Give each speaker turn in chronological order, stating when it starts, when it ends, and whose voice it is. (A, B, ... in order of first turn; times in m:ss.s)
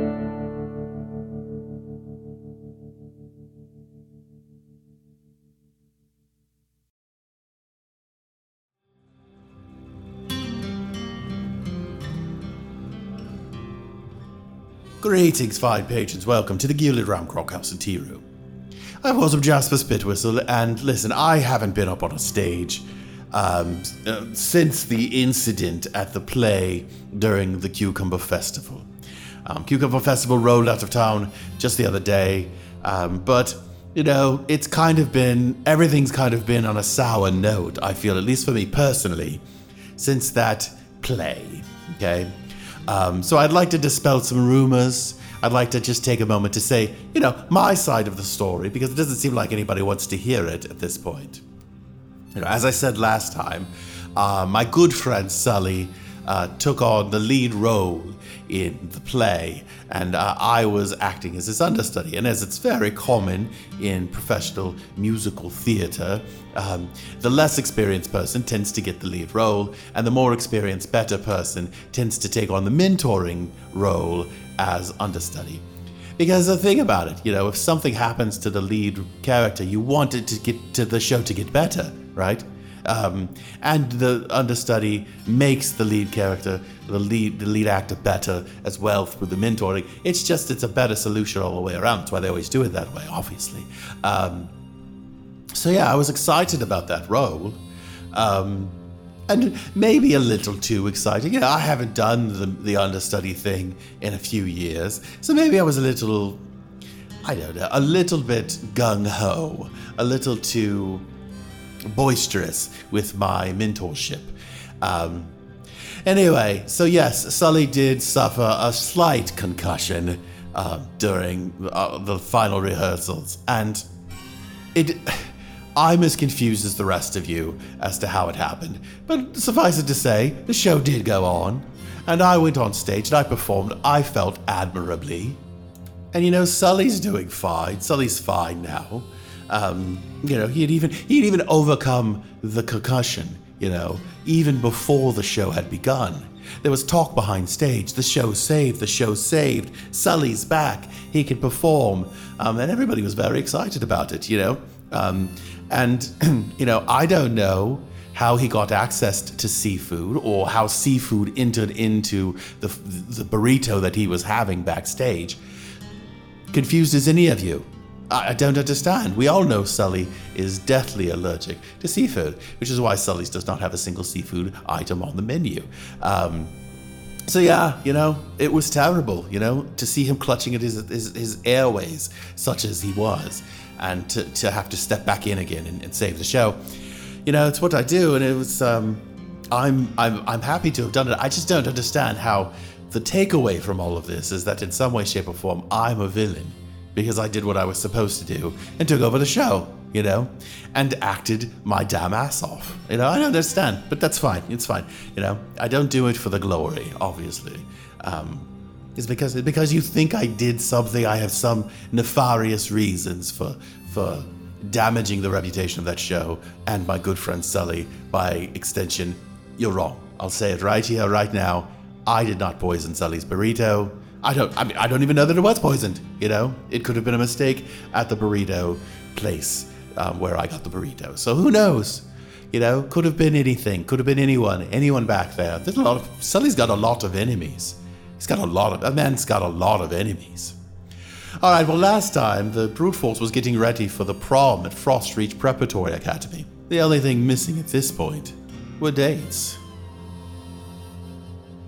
0:15.0-0:18.3 A
0:19.0-0:28.9 A
0:29.5-0:39.4 A
0:40.0-0:42.3 A
0:42.9-0:51.4 A
0:52.4-1:15.6 A
1:16.2-1:34.5 A
1:35.5-1:37.6 A
1:38.1-1:38.8 A
1:39.3-1:46.4 A
1:47.2-1:51.1 A
1:51.9-1:55.3 A
1:56.1-2:03.8 A
2:04.7-2:15.4 A
2:16.1-2:45.4 A
2:46.5-2:56.6 A
2:57.3-3:06.6 A
3:07.3-4:00.6 A
4:01.4-4:09.6 A